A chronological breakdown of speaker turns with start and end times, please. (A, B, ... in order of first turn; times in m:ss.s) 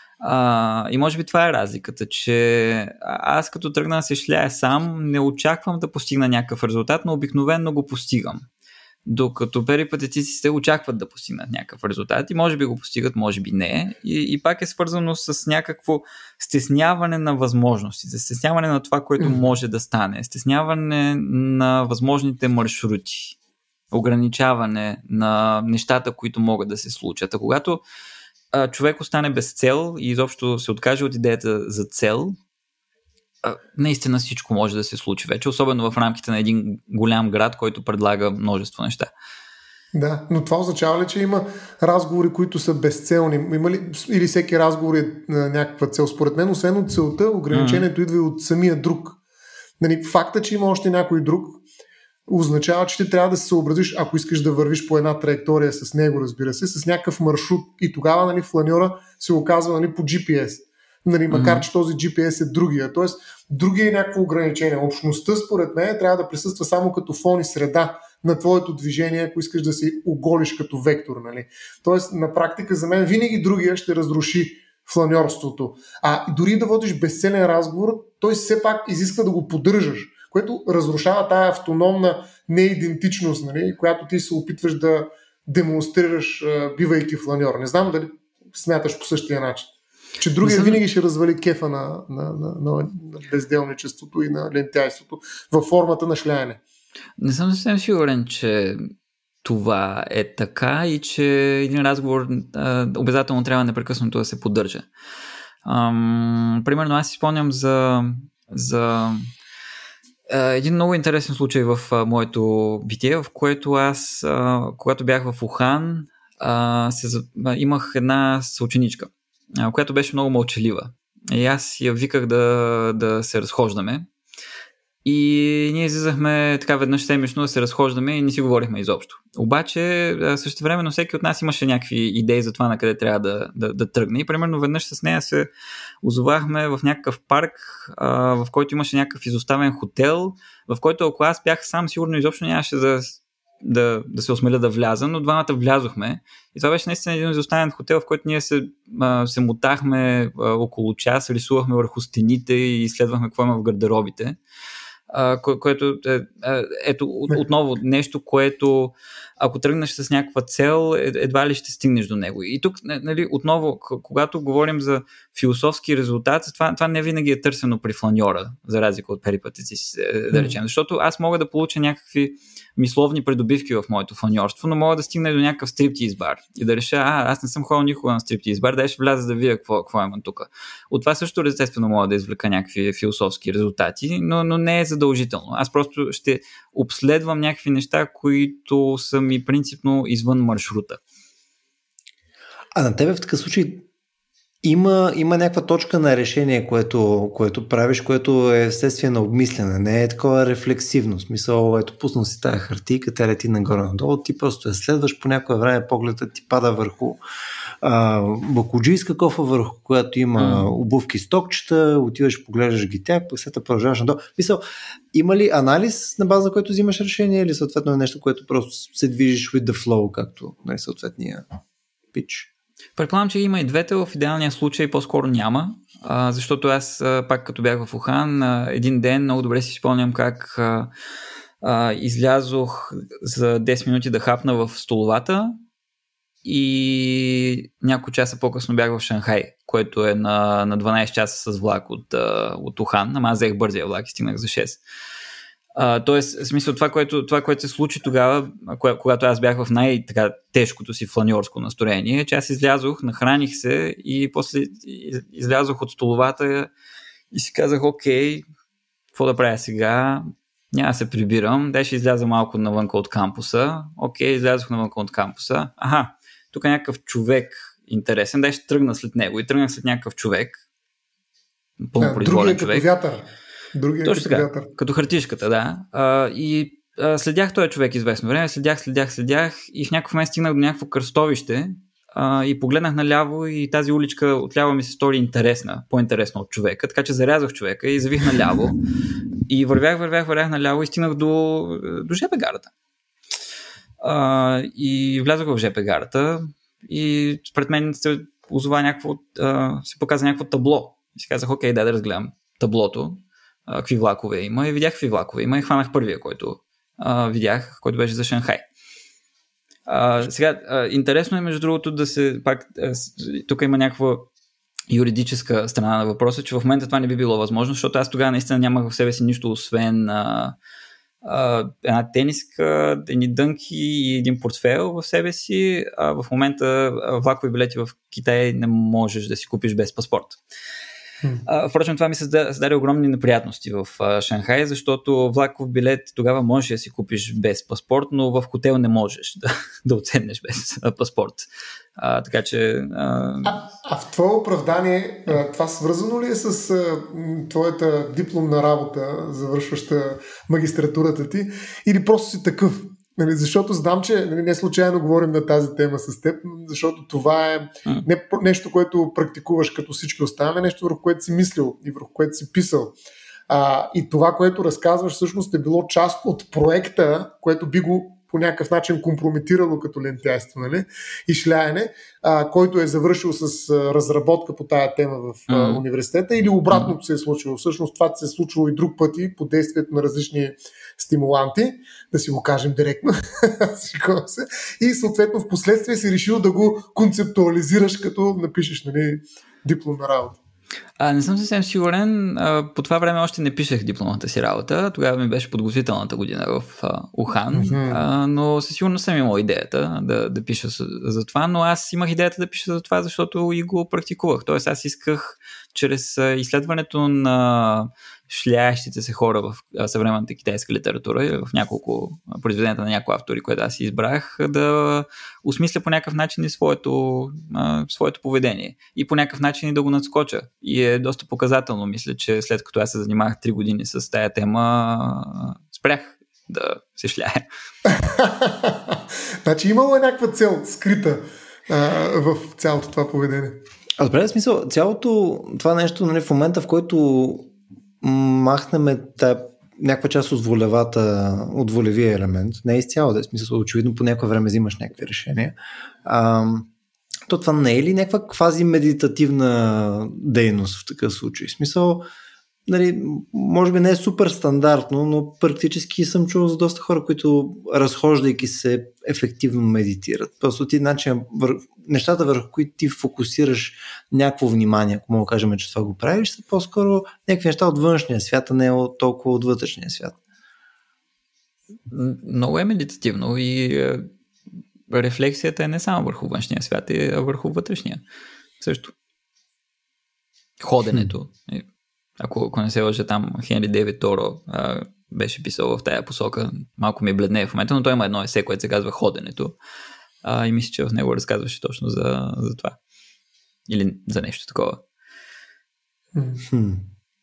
0:00.2-0:08.5 A
0:09.0-0:23.4 A
0:23.9-0:27.8 A
0:28.5-0:32.4 A
0:33.4-0:39.1 A
0:39.9-0:49.2 B
0:47.5-0:47.8 A
0:49.8-0:51.6 B
0:52.3-1:36.6 B
1:01.3-1:01.6 A
1:30.4-1:30.8 A
1:37.2-1:38.9 A
1:39.4-1:44.9 A
1:45.6-1:49.3 A
1:50.3-2:04.1 A
2:05.0-2:15.5 A
2:16.0-2:34.4 A
2:35.1-3:11.0 A
3:12.7-3:13.8 C
3:14.6-3:27.2 C
3:27.8-3:34.6 C
3:30.4-3:30.7 A
3:35.1-3:41.4 C
3:42.1-3:42.5 C
3:43.0-3:50.9 A
3:51.6-3:55.6 A
3:56.4-4:04.8 A
4:05.8-4:16.7 A
4:17.3-4:18.4 A
4:19.1-4:30.6 A
4:31.9-4:32.8 A
4:32.0-4:34.7 B
4:34.0-4:48.8 A
4:49.5-4:52.7 A
4:54.0-5:08.6 A
5:09.9-5:14.3 A
5:14.9-5:20.6 A
5:21.2-5:30.4 A
5:31.4-5:43.6 A
5:43.4-6:03.0 B
6:03.5-6:30.4 B
6:15.5-6:15.8 A
6:31.0-7:07.5 A
6:37.5-6:38.0 B
7:07.9-7:13.6 B
7:14.0-7:26.7 C
7:27.3-7:32.1 C
7:32.7-7:50.2 C
7:51.9-7:54.1 A
7:54.9-7:58.0 A
7:58.6-7:58.9 A
8:00.6-8:01.6 A
8:02.2-8:09.6 A
8:10.2-8:12.8 A
8:13.7-8:14.8 A
8:16.1-8:16.4 B
8:16.5-8:16.8 C